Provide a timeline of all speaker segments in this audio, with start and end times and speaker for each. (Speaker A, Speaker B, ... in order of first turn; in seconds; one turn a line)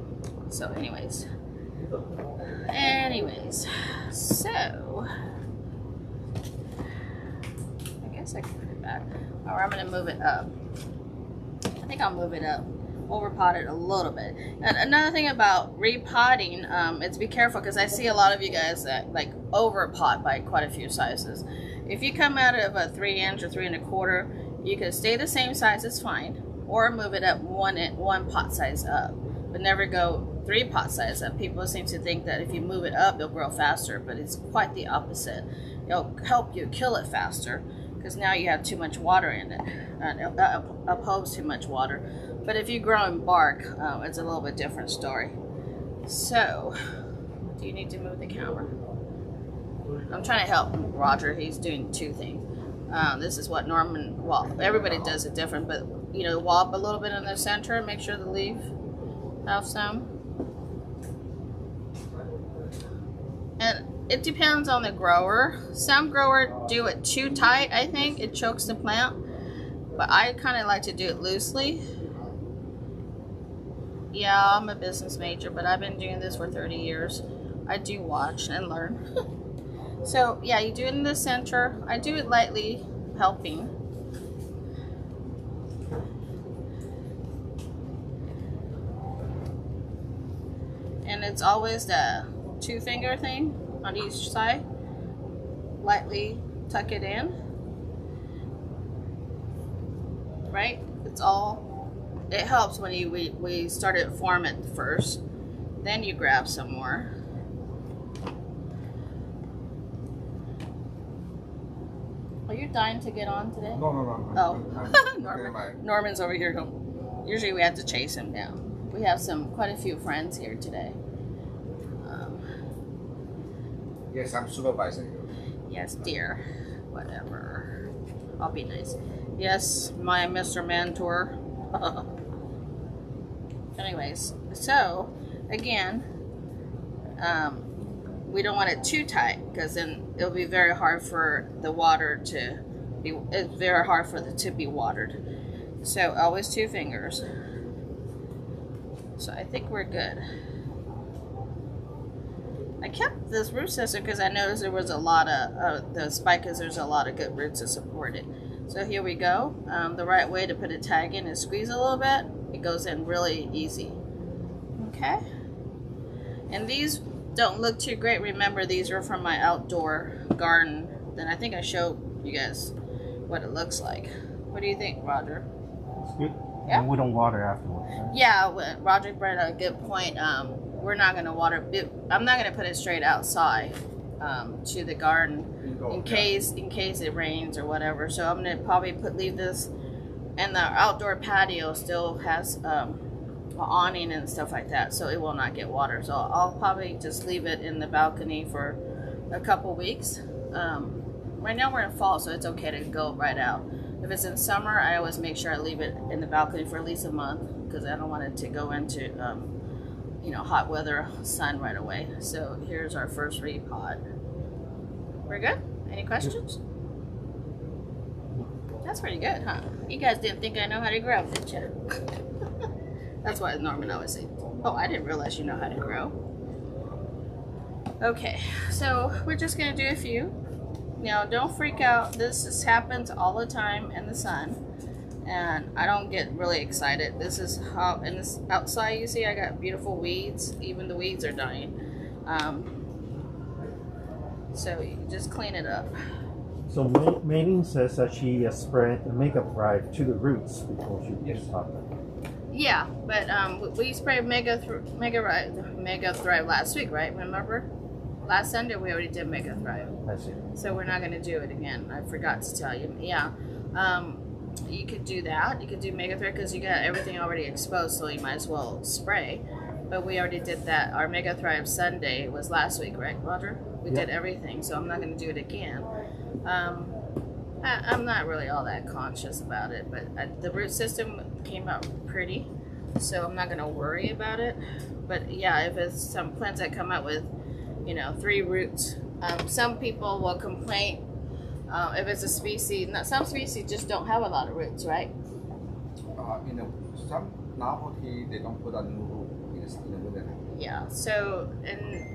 Speaker A: 0.5-1.3
Speaker A: 2.5-5.1
Speaker A: 8.0-10.5
Speaker A: 11.8-45.4
Speaker A: 46.1-46.8
Speaker A: 47.6-48.7
Speaker A: 50.1-58.7
Speaker A: 59.5-60.1
Speaker A: 63.6-69.2
Speaker A: 70.0-71.8
Speaker A: 74.1-79.0
Speaker A: 80.0-83.7
Speaker A: 91.0-94.7
Speaker A: 95.8-97.4
Speaker A: 100.5-101.7
Speaker A: 102.3-105.2
Speaker A: 105.8-107.1
Speaker A: 112.5-113.8
Speaker B: 113.7-115.8
Speaker A: 114.3-121.0
Speaker A: 122.0-122.4
Speaker B: 124.1-125.3
Speaker A: 125.7-127.8
Speaker A: 128.4-132.1
Speaker A: 133.8-136.1
Speaker A: 137.2-137.7
Speaker A: 138.3-145.2
Speaker A: 145.8-147.2
Speaker A: 149.2-150.2
Speaker A: 152.8-164.0
Speaker A: 164.8-165.2
Speaker A: 166.5-172.7
Speaker A: 173.3-175.5
Speaker C: 176.1-178.1
Speaker A: 178.1-189.7
Speaker B: 185.6-186.3
Speaker A: 190.4-193.0
Speaker A: 193.6-198.8
Speaker A: 199.3-209.5
Speaker A: 210.2-214.0
Speaker A: 215.3-216.6
Speaker A: 218.8-221.9
Speaker A: 223.2-226.2
Speaker A: 228.0-230.3
Speaker A: 231.0-234.6
Speaker A: 235.2-241.8
Speaker A: 242.3-242.8
Speaker A: 244.5-245.9
Speaker C: 246.7-251.9
Speaker A: 252.5-257.7
Speaker A: 258.2-259.9
Speaker C: 260.1-260.4
Speaker A: 260.6-275.9
Speaker A: 276.4-276.9
Speaker A: 277.6-287.3
Speaker A: 287.9-291.0
Speaker A: 291.7-295.1
Speaker B: 296.2-300.4
Speaker A: 300.5-302.1